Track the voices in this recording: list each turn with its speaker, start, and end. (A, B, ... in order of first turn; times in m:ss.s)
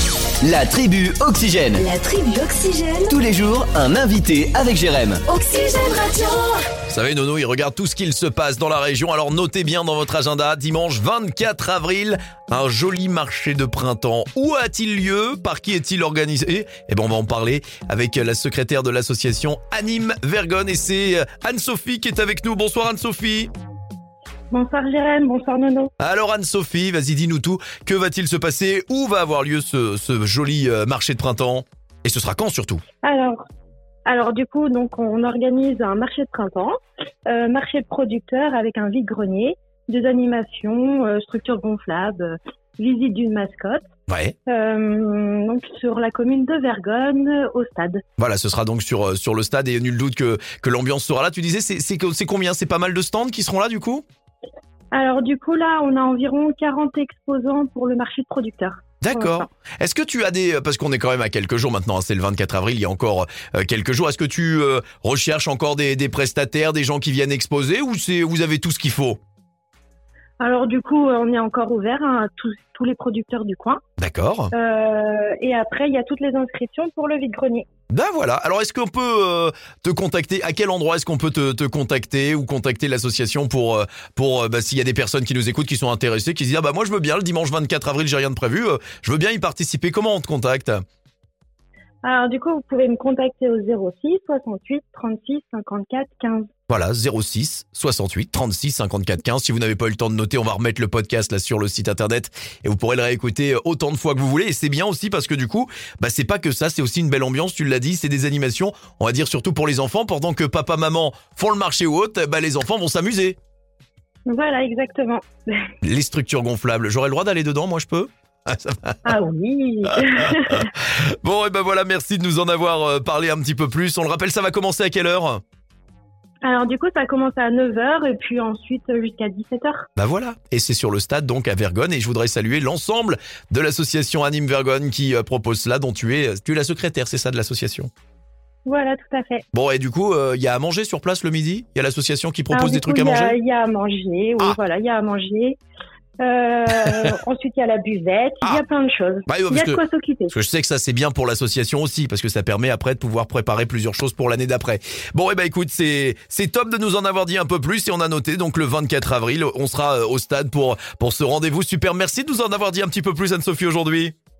0:00.4-0:01.8 A
0:01.8-0:03.1 B
0:03.1-0:05.2 A
0:05.3-0:06.6 B
0:06.9-0:23.5 C
0:24.5-0:25.9 D
0:26.0-0:32.8 C
0:33.0-0:33.4 D
0:34.0-0:43.8 D
0:44.1-0:44.3 C
0:44.5-0:48.0 D
0:48.2-0:54.0 C
0:54.9-0:59.4 D
0:59.0-1:09.2 C
1:10.4-1:13.8 D
1:14.0-1:14.5 C
1:14.5-1:17.6 D
1:17.9-1:30.8 C
1:32.0-1:36.5 D
1:36.7-1:53.4 C
1:54.3-1:55.7 D
1:55.8-1:59.1 C
1:59.0-2:00.7 D
2:00.5-2:05.4 C
2:06.4-2:09.8 D
2:10.0-2:17.9 C
2:18.6-2:19.4 D
2:19.5-2:23.4 C
2:22.5-2:25.6 D
2:26.2-2:30.3 D
2:29.3-2:29.8 C
2:30.3-2:44.1 C